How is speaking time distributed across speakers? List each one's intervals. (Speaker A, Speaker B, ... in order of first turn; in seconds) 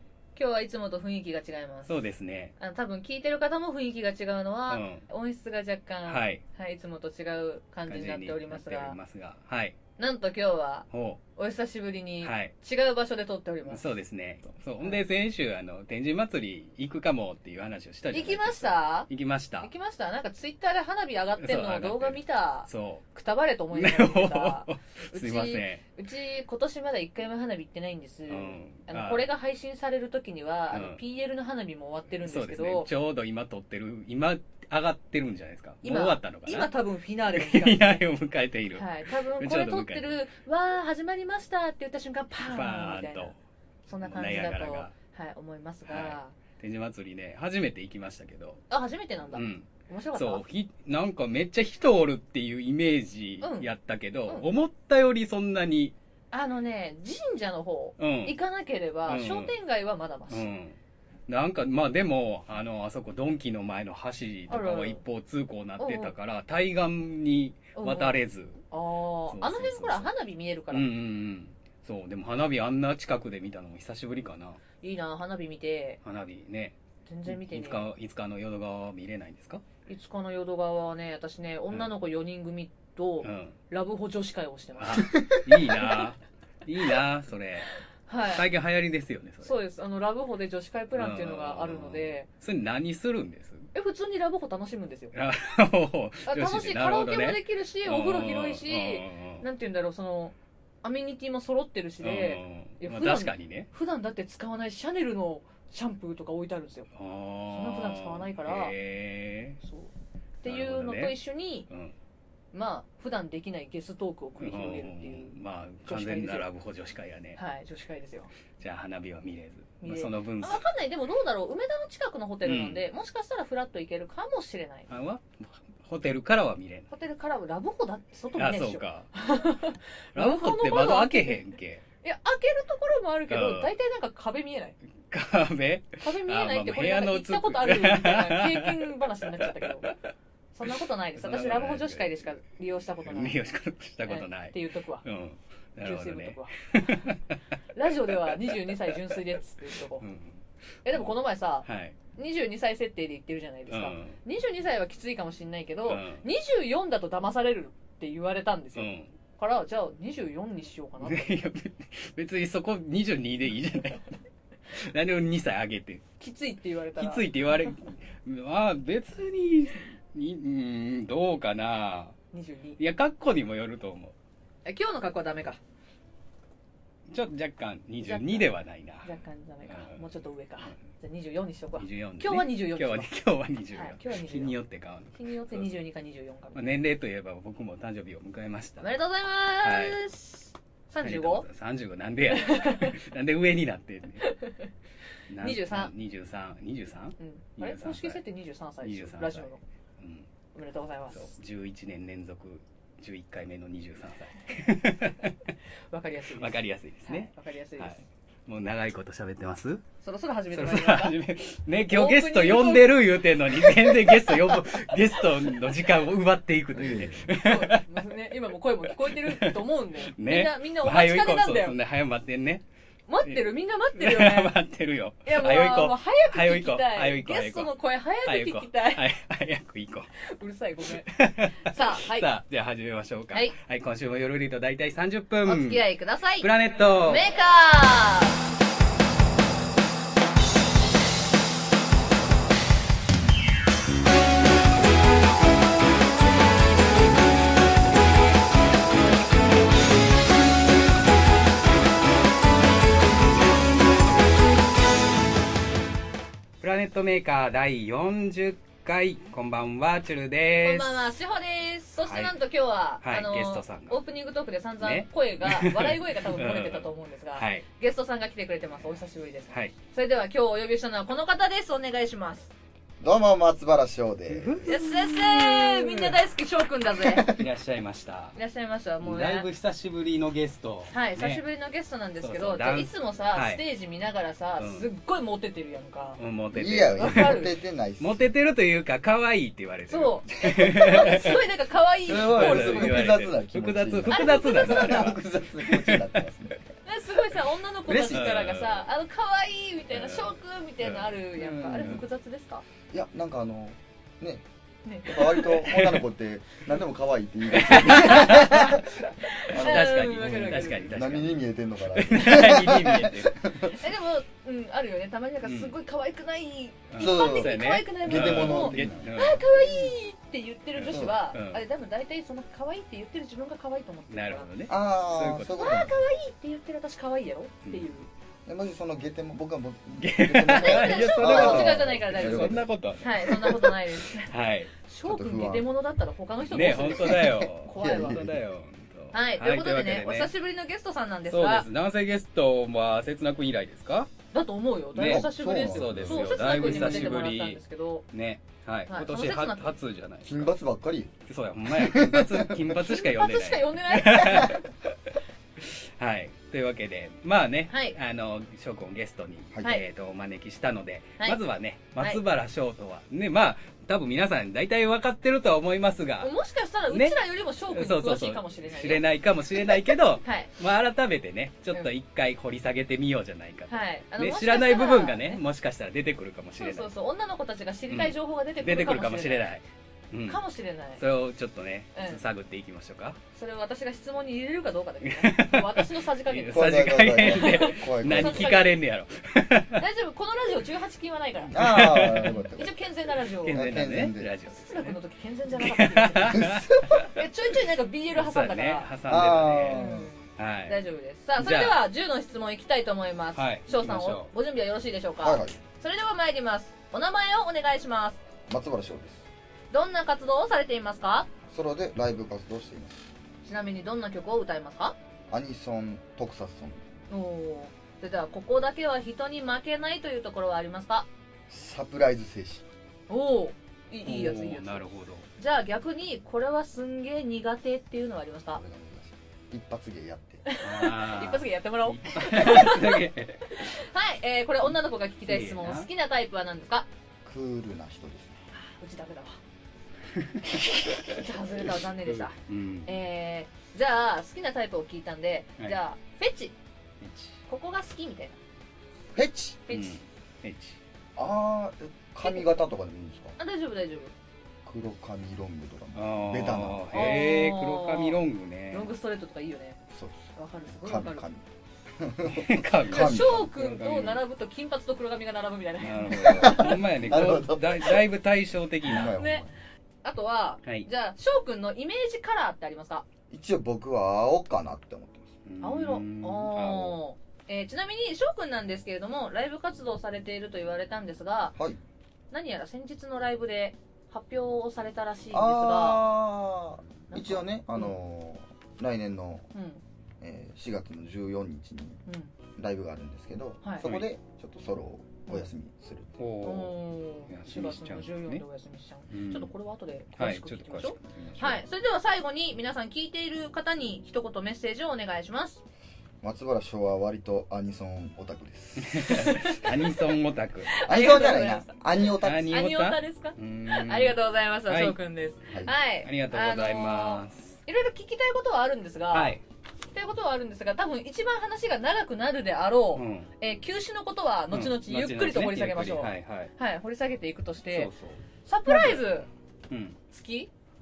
Speaker A: 0.4-2.0, 2.6-9.0, 10.0-13.8, 18.1-19.1, 19.6-32.9, 35.8-38.0, 38.7-43.4, 43.9-46.4, 48.7-50.4, 53.4-53.7, 56.3-60.5, 64.5-65.0, 65.8-66.1, 67.8-68.2, 68.7-70.9, 74.8-76.0, 77.1-77.9, 79.9-86.0, 88.1-88.5, 89.4-92.3, 93.7-95.1, 96.3-106.9, 107.5-108.8, 109.6-109.9, 110.4-111.7, 112.5-116.5, 117.4-118.3, 119.8-124.9, 126.9-131.5, 132.0-134.8, 136.0-139.9, 140.6-143.4, 144.1-145.0, 145.8-147.1, 147.7-150.1, 150.8-161.4, 166.2-167.3, 172.3-172.8, 174.7-175.6, 178.0-178.5, 179.0-183.1, 183.7-184.6, 185.2-186.6, 188.8-191.5, 192.3-193.0, 194.2-194.7, 195.4-195.9, 197.2-199.6, 200.5-201.3, 205.9-208.1, 210.0-211.2, 211.8-215.9, 217.3-221.8, 223.1-224.6, 225.2-229.1, 230.2-232.3, 235.4-238.4, 260.6-272.5, 274.7-277.3, 278.4-279.5, 280.9-286.2, 286.9-287.5, 289.9-293.1, 294.1-295.2, 296.9-302.6, 304.9-305.8, 309.2-310.9, 313.7-324.5, 325.5-328.1, 330.5-338.2, 339.1-341.7, 344.3-348.1, 348.9-349.8, 352.7-354.7, 357.7-358.0, 366.2-369.1, 369.6-370.5, 373.7-375.4, 376.6-379.5, 380.3-381.0, 381.9-382.2, 383.3-388.8, 389.8-393.9, 394.5-398.9, 399.7-408.2, 409.7-411.3, 413.4-415.0, 417.1-421.1, 423.1-424.8, 425.4-428.6, 430.4-436.9, 438.5-439.4, 441.1-446.6, 447.5-448.4, 449.7-450.0, 452.2-452.5, 453.4-454.1, 456.9-458.2, 458.7-459.8, 460.4-461.2, 462.9-466.8, 469.2-469.4, 470.0-473.1, 475.6-481.6, 482.3-486.1, 487.1-488.0, 489.5-489.8, 492.1-492.3, 493.6-493.9, 496.4-505.6, 509.1-510.0, 510.7-519.4, 519.9-527.9, 528.5-529.3, 530.1-530.5
Speaker B: 1.9-2.5, 4.7-5.0, 6.1-6.4, 7.9-9.8, 10.9-11.2, 12.2-12.5, 13.7-19.7, 21.4-23.1, 23.7-25.8, 28.3-29.3, 30.7-31.0, 32.2-36.7, 37.3-40.1, 42.4-43.4, 44.0-44.9, 45.9-48.6, 49.3-55.9, 58.0-58.4, 59.1-59.5, 60.3-60.8, 61.3-68.6, 69.3-70.1, 70.7-74.6, 76.0-76.8, 77.3-79.6, 83.2-83.6, 84.8-87.7, 88.3-89.6, 90.9-93.7, 95.1-99.4, 102.0-103.7, 106.9-109.6, 110.4-111.2, 111.7-112.0, 114.4-117.4, 118.6-120.7, 122.4-122.9, 124.9-126.9, 128.4-129.1, 130.2-131.8, 133.3-133.7, 135.1-139.9, 141.2-142.2, 143.1-147.4, 148.3-148.9, 150.0-151.1, 151.7-152.0, 153.7-154.2, 155.9-156.2, 158.8-159.1, 161.0-164.1, 164.7-166.0, 167.0-172.2, 172.8-174.1, 177.1-179.1, 179.7-180.1, 181.8-185.7, 186.6-188.9, 189.6-190.0, 191.0-194.3, 195.3-198.2, 198.8-200.3, 201.1-205.3, 206.4-207.9, 208.5-209.8, 210.5-218.1, 218.9-222.6, 224.0-230.1, 231.0-235.8, 236.4-237.3, 256.6-261.1, 262.1-262.4, 263.0-264.0, 264.8-267.6, 274.3-276.2, 277.2-278.4, 279.0-281.4, 282.2-283.6, 284.6-284.9, 286.2-291.4, 292.1-296.2, 297.9-298.9, 299.9-302.1, 307.5-308.8, 309.4-313.5, 315.4-315.8, 316.9-319.8, 320.8-321.6, 324.1-325.8, 327.7-327.9, 330.0-334.7, 336.5-340.3, 341.3-344.1, 344.9-350.5, 351.3-366.3, 366.9-376.9, 377.9-380.4, 381.0-383.2, 385.0-389.8, 391.5-392.4, 393.4-395.0, 395.5-397.2, 398.1-400.8, 401.4-401.8, 403.4-404.3, 424.1-425.3, 430.6-433.7, 435.2-435.9, 440.1-441.2, 442.1-442.9, 447.0-447.4, 449.7-450.8, 455.9-458.9, 462.2-464.2, 465.8-469.2, 475.4-477.0, 493.8-494.1, 496.2-498.4, 499.1-499.5, 500.2-501.6, 508.8-510.8, 512.2-515.0, 516.0-517.6, 519.1-519.4, 522.9-523.3, 524.5-526.5, 527.7-529.2, 529.7-530.0
Speaker C: 216.8-217.2, 273.0-274.7, 286.5-288.3, 290.5-291.2, 292.1-296.7, 302.9-304.4, 305.1-313.8, 317.0-319.1, 324.7-326.0, 328.5-332.7, 335.1-335.7, 336.8-338.4, 345.0-347.2, 350.2-351.1, 351.6-352.8, 386.5-388.6, 391.5-392.8, 393.4-394.3, 396.3-397.1, 399.1-400.1, 405.2-405.6, 408.5-409.3, 411.5-413.1, 415.3-416.8, 421.5-422.7, 428.5-430.4, 437.2-438.4, 449.1-449.6, 451.2-453.4, 454.6-457.2, 459.9-461.4, 462.0-463.6, 466.1-468.0, 468.9-469.5, 473.3-475.3, 485.3-489.5, 490.2-492.0, 492.6-496.1, 506.2-509.5, 510.8-512.6